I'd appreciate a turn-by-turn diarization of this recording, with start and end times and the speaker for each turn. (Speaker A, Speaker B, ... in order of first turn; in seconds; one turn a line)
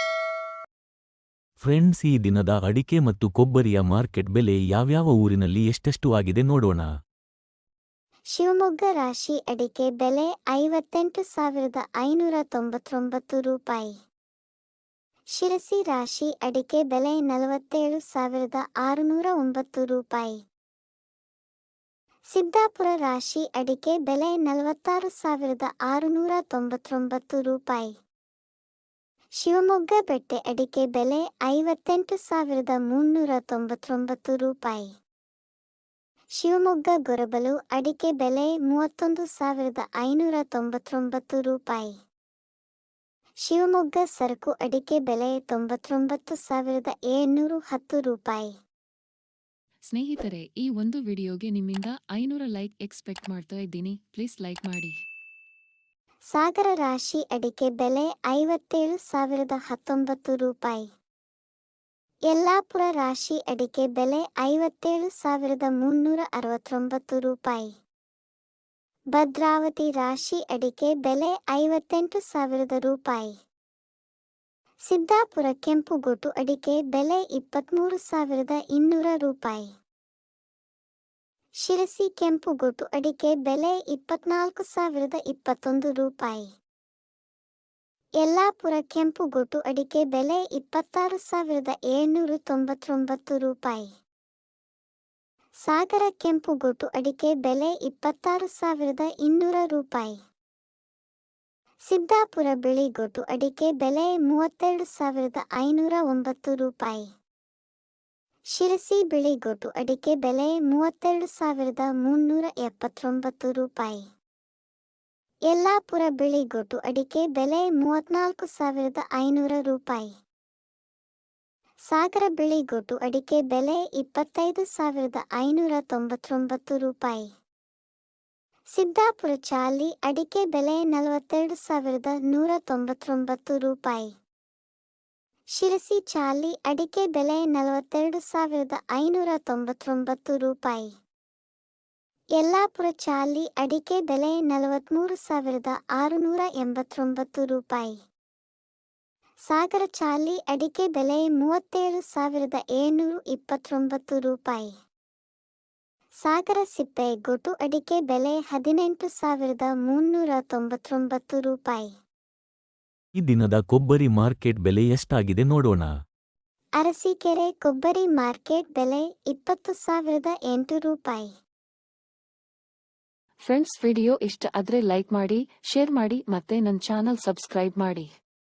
Speaker A: 1.6-6.9
Speaker B: 8.3-13.9
Speaker B: 15.3-20.4
Speaker B: 22.3-27.9
Speaker B: 29.4-34.9
Speaker B: 36.4-41.9
Speaker B: 43.4-48.5
Speaker C: 49.9-54.9
Speaker B: 56.3-60.8
Speaker B: 62.3-67.7
Speaker B: 69.1-73.3
Speaker B: 74.9-79.7
Speaker B: 81.6-86.5
Speaker B: 88.2-93.8
Speaker B: 95.6-100.2
Speaker B: 101.9-107.0
Speaker B: 108.5-114.0
Speaker B: 115.5-120.1
Speaker B: 121.9-127.2
Speaker B: 128.7-134.1
Speaker B: 135.5-140.9
Speaker B: 142.4-147.9
Speaker B: 149.5-154.7
Speaker B: 156.2-161.9
Speaker A: 163.2-165.9
Speaker B: 166.8-171.3
Speaker C: 173.4-178.1